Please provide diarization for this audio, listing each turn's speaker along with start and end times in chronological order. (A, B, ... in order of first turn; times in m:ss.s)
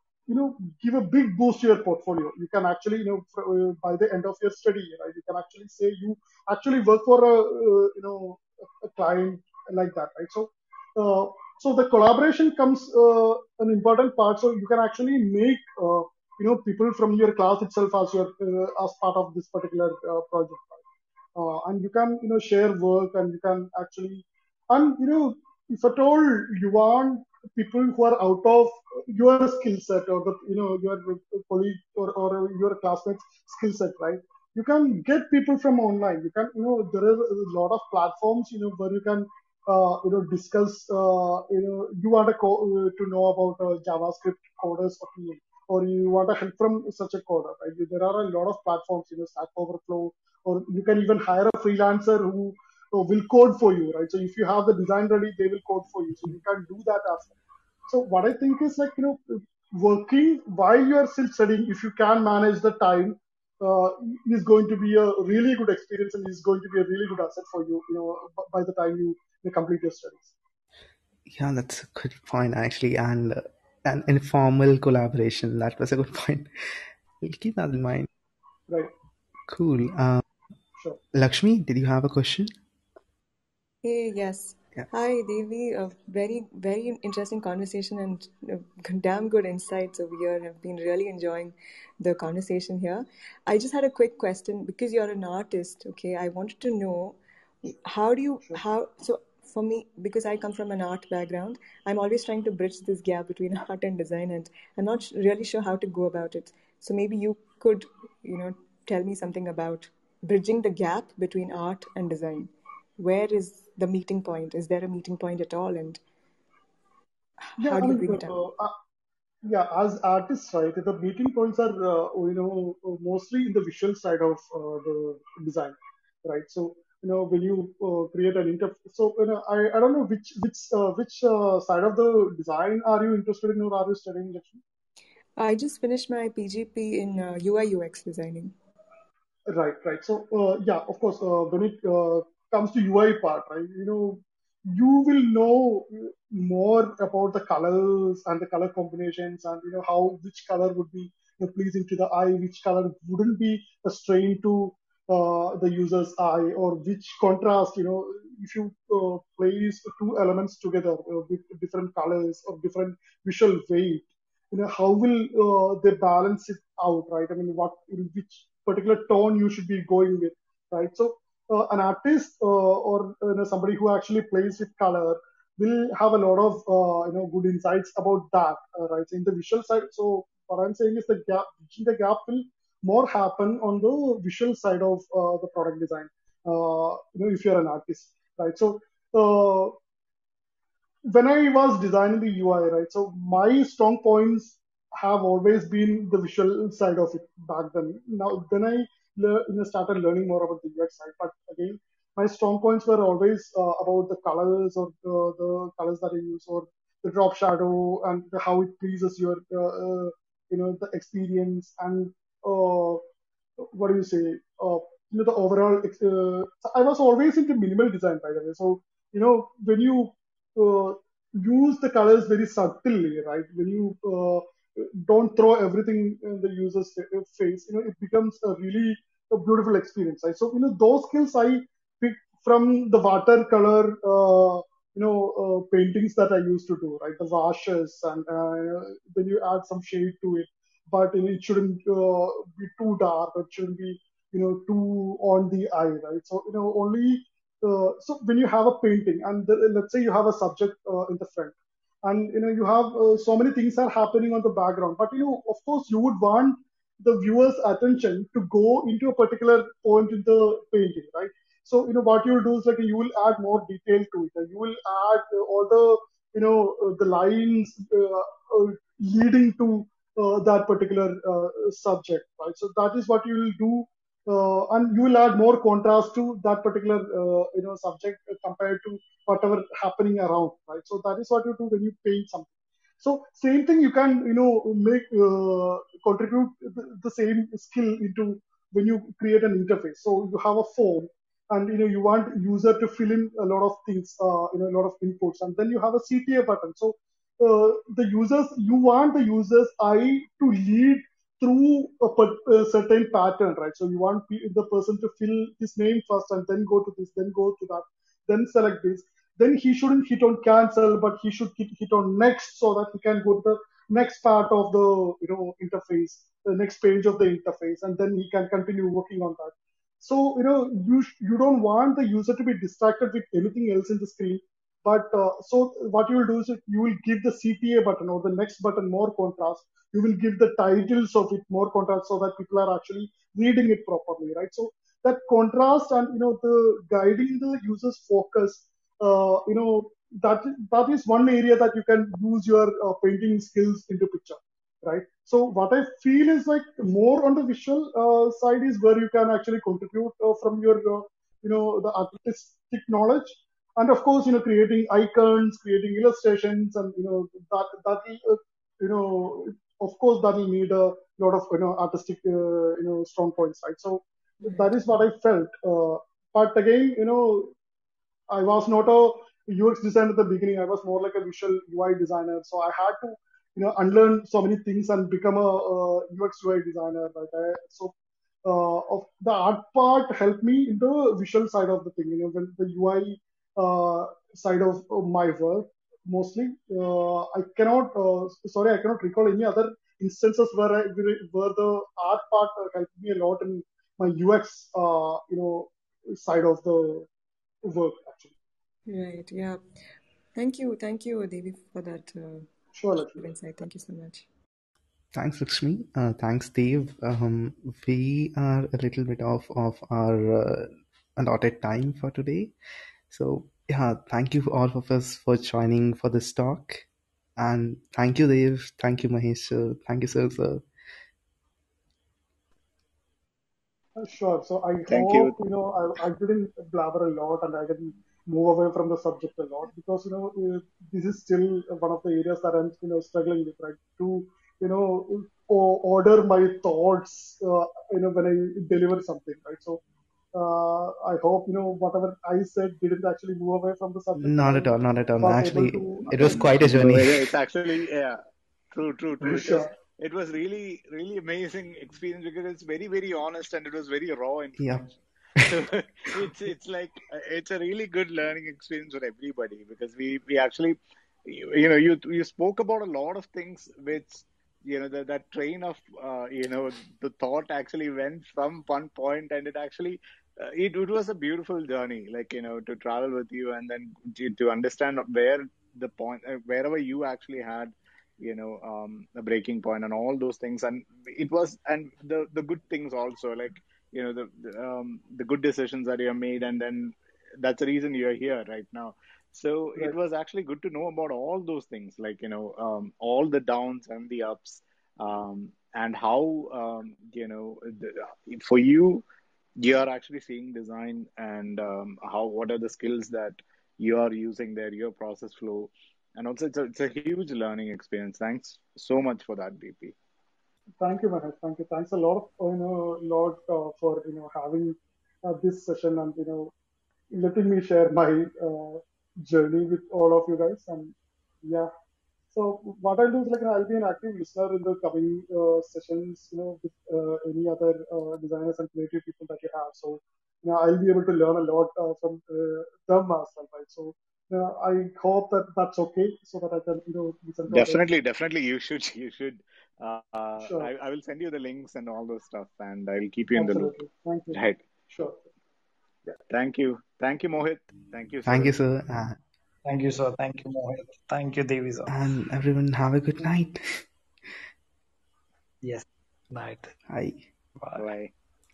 0:00.3-0:20.8 A
0:21.4-0:57.4 A
0:57.9-1:10.3 A
1:11.3-1:16.5 B
1:17.2-1:18.1 B
1:19.5-1:20.2 B
1:21.1-1:22.5 B
1:23.8-1:37.2 C
1:37.7-1:56.0 C
1:57.6-1:58.8 A
1:57.6-1:58.4 C
1:59.4-2:14.6 A
2:15.4-2:18.5 C
2:19.5-3:09.8 A
3:11.1-3:33.0 A
3:33.6-6:07.5 A
6:08.3-6:17.9 A
6:18.4-6:37.1 A
6:37.7-6:38.3 A
6:38.9-6:39.6 C
6:40.4-6:42.5 C
6:42.8-6:43.3 A
6:43.0-6:44.3 C
6:45.1-6:52.5 B
6:53.1-6:56.8 B
6:57.4-7:00.6 B
7:04.0-7:19.8 A
7:04.9-7:05.4 D
7:20.3-7:26.5 A
7:24.2-7:27.3 B
7:26.1-7:28.2 D
7:28.7-8:19.1 D
7:29.2-7:29.7 A
7:34.6-7:34.8 B
8:19.6-8:30.0 D
8:30.8-8:36.5 A
8:37.1-8:41.7 A
8:42.3-8:57.8 A
8:57.5-9:03.7 D
9:00.4-9:00.7 A
9:03.4-9:05.2 A
9:04.3-9:04.6 D
9:06.3-9:08.6 D
9:08.3-9:09.2 B
9:09.6-9:11.9 E
9:11.9-9:13.8 B
9:15.6-9:16.7 E
9:16.9-9:17.2 B
9:17.6-9:17.9 E
9:17.8-9:18.1 D